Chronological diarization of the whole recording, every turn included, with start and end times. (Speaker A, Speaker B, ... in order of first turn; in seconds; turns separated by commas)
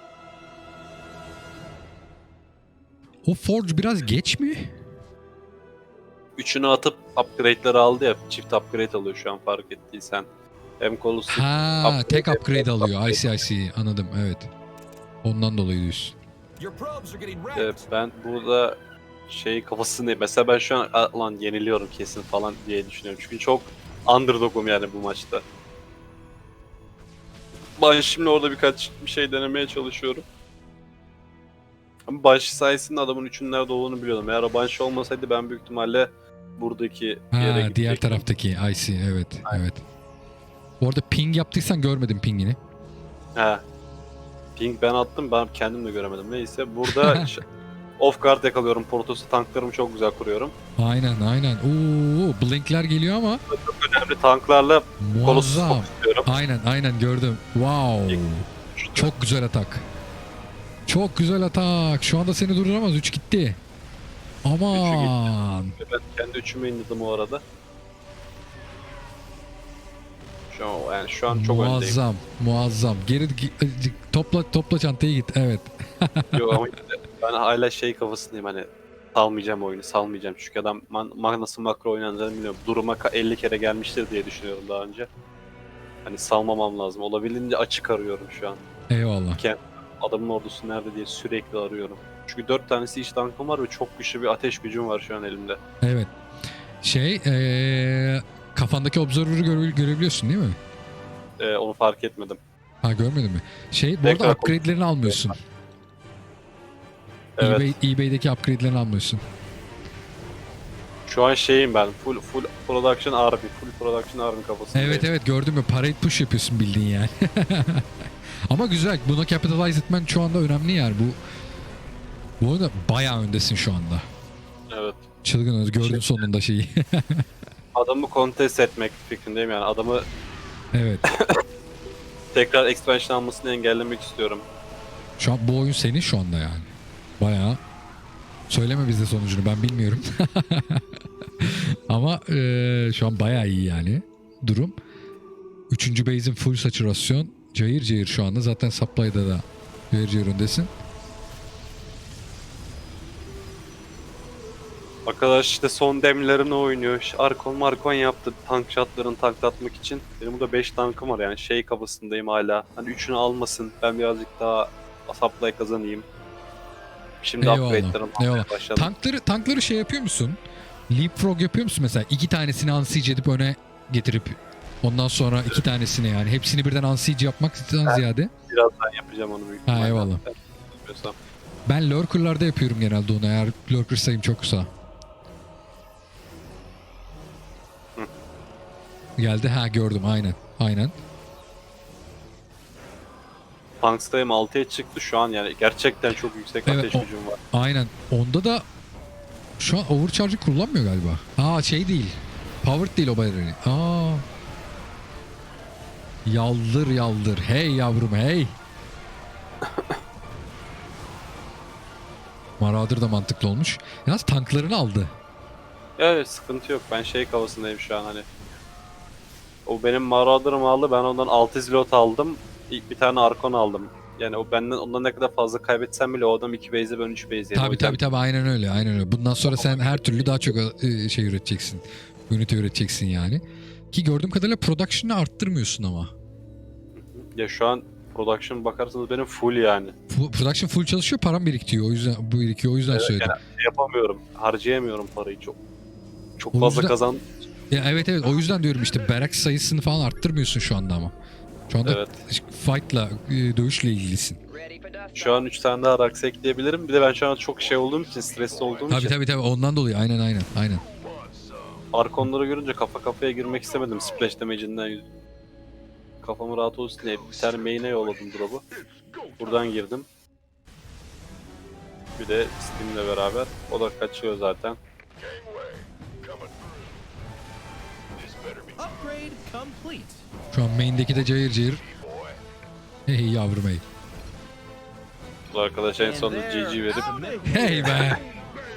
Speaker A: 3.2-4.7, Speaker B: 6.4-10.3, Speaker B: 10.8-13.3, Speaker A: 11.3-14.5, Speaker A: 15.2-16.1, Speaker C: 16.6-17.8, Speaker B: 17.5-25.4, Speaker B: 27.8-30.2, Speaker B: 32.1-38.3, Speaker A: 37.3-39.8, Speaker A: 40.8-42.6, Speaker B: 43.4-43.6, Speaker B: 44.6-47.4, Speaker A: 46.8-47.3, Speaker B: 48.0-50.5, Speaker A: 50.8-53.4, Speaker B: 53.5-56.3, Speaker A: 55.0-59.9, Speaker B: 58.1-59.1, Speaker A: 60.9-63.6, Speaker A: 64.4-65.8, Speaker B: 64.7-67.4, Speaker B: 70.5-72.0, Speaker A: 71.3-76.5, Speaker B: 76.3-85.1, Speaker B: 86.0-88.6, Speaker A: 88.9-89.4, Speaker B: 89.4-95.6, Speaker A: 95.8-96.1, Speaker A: 96.8-100.6, Speaker B: 101.4-102.4, Speaker A: 102.8-105.4, Speaker B: 104.0-105.3, Speaker B: 107.4-107.8, Speaker A: 107.4-109.2, Speaker B: 111.1-115.1, Speaker A: 114.7-117.9, Speaker A: 118.5-121.2, Speaker A: 122.4-124.0, Speaker B: 124.7-125.0, Speaker A: 125.2-127.2, Speaker B: 125.8-126.2, Speaker B: 127.7-130.0, Speaker A: 130.7-131.1, Speaker B: 131.1-131.4, Speaker B: 132.3-134.4, Speaker A: 135.2-137.6, Speaker A: 138.5-140.8, Speaker A: 141.4-144.7, Speaker A: 145.7-150.7, Speaker B: 155.1-166.0, Speaker B: 167.2-168.9, Speaker A: 167.4-178.3, Speaker B: 177.8-181.2, Speaker A: 179.7-180.2, Speaker A: 181.7-184.7, Speaker A: 189.2-190.9, Speaker B: 193.8-197.4, Speaker A: 196.7-198.6, Speaker A: 199.6-204.2, Speaker A: 206.2-208.6, Speaker B: 209.6-210.0, Speaker A: 212.6-215.1, Speaker B: 216.0-218.2, Speaker B: 219.7-228.0, Speaker A: 227.5-236.1, Speaker B: 229.5-230.5, Speaker B: 236.9-239.9, Speaker A: 240.1-243.3, Speaker B: 242.9-245.6, Speaker B: 246.4-247.3, Speaker A: 246.5-246.9, Speaker A: 247.7-251.1, Speaker A: 251.7-254.4, Speaker B: 251.8-252.2, Speaker B: 255.1-259.1, Speaker A: 258.9-260.8, Speaker B: 261.9-265.1, Speaker B: 266.2-268.6, Speaker B: 269.4-270.1, Speaker B: 272.2-274.8, Speaker C: 278.7-280.2, Speaker A: 280.5-281.8, Speaker A: 283.1-283.8, Speaker B: 285.5-288.1, Speaker C: 286.0-288.2, Speaker A: 287.4-288.2